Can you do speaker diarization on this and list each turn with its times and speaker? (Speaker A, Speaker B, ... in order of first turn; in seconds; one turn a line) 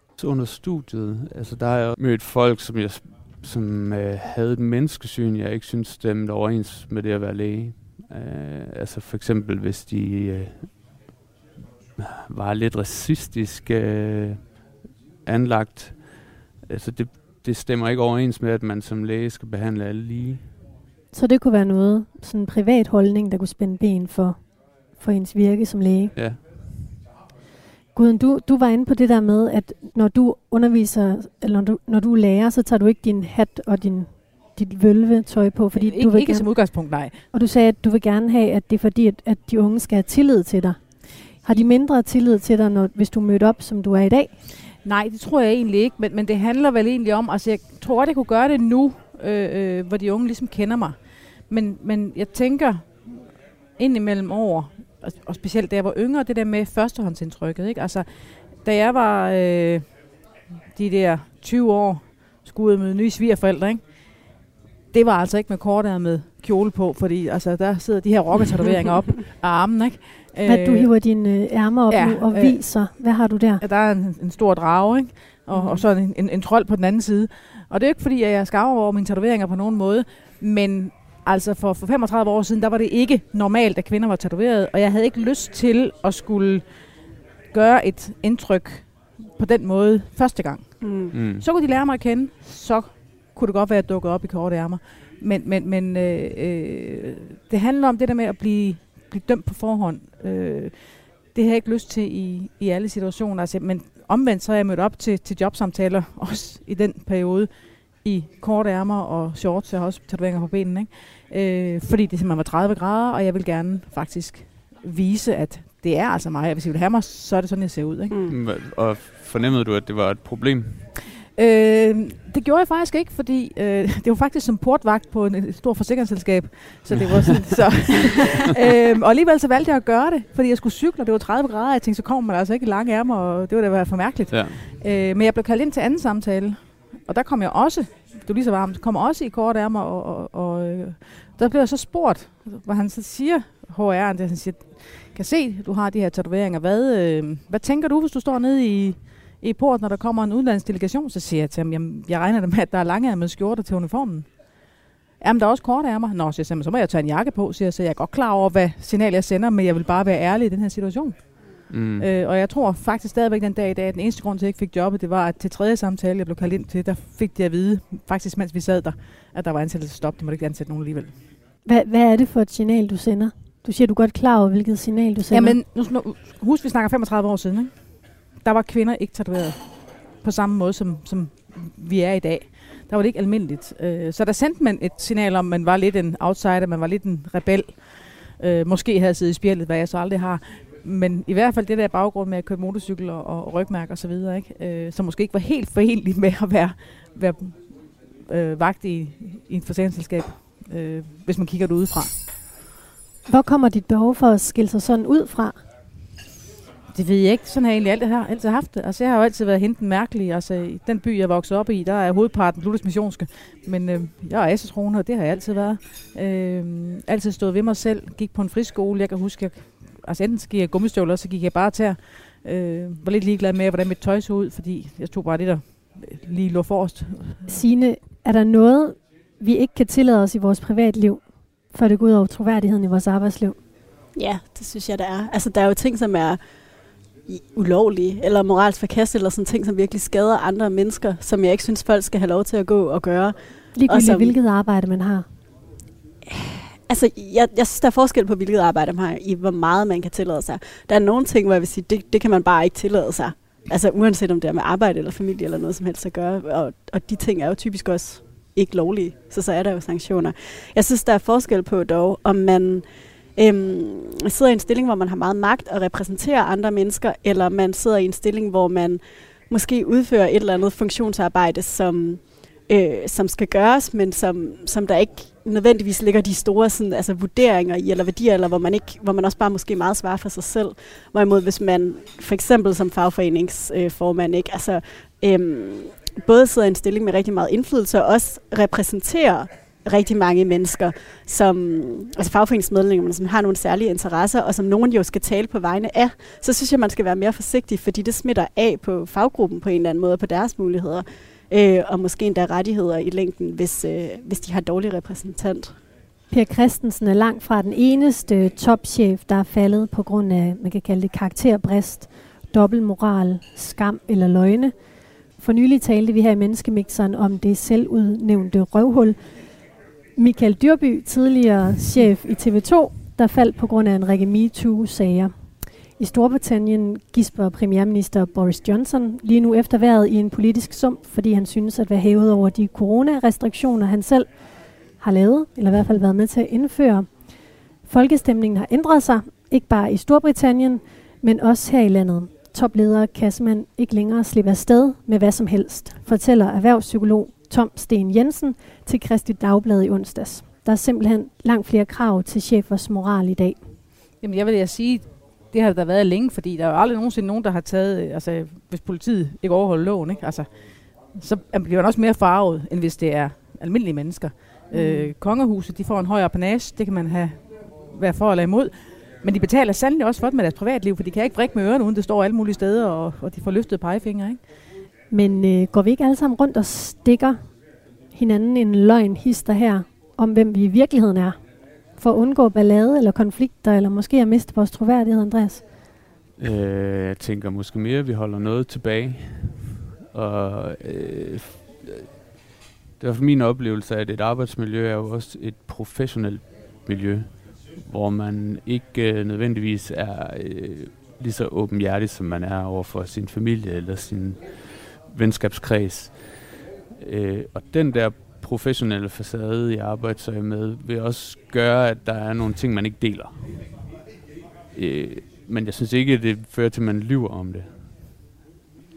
Speaker A: 0.2-10.7
Speaker A: 12.0-14.5
Speaker A: 15.3-20.5
Speaker B: 21.1-26.1
Speaker A: 26.1-27.0
Speaker B: 27.9-44.4
Speaker C: 35.8-37.2
Speaker C: 44.8-59.9
Speaker C: 60.7-64.3
Speaker C: 64.9-70.9
Speaker B: 70.4-73.6
Speaker C: 71.9-72.8
Speaker C: 73.6-86.7
Speaker D: 75.5-75.8
Speaker C: 87.5-107.5
Speaker D: 90.8-91.1
Speaker A: 91.1-91.5
Speaker C: 108.0-118.1
Speaker D: 118.1-118.4
Speaker A: 118.3-120.9
Speaker C: 121.3-154.3
Speaker A: 126.9-127.6
Speaker A: 134.3-134.7
Speaker C: 155.2-171.2
Speaker A: 161.7-162.1
Speaker B: 171.7-175.6
Speaker C: 175.3-177.8
Speaker C: 178.3-202.2
Speaker B: 203.3-205.6
Speaker C: 206.9-227.6
Speaker B: 227.5-233.6
Speaker D: 234.2-236.4
Speaker D: 237.3-244.3
Speaker B: 243.8-245.3
Speaker D: 246.3-305.8
Speaker B: 306.3-314.8
Speaker B: 315.3-319.4
Speaker B: 320.2-353.7
Speaker C: 354.2-374.4
Speaker B: 364.7-365.1
Speaker B: 375.1-377.6
Speaker B: 378.1-381.4
Speaker B: 381.9-385.7
Speaker A: 386.4-392.1
Speaker A: 393.0-413.8
Speaker A: 414.8-417.9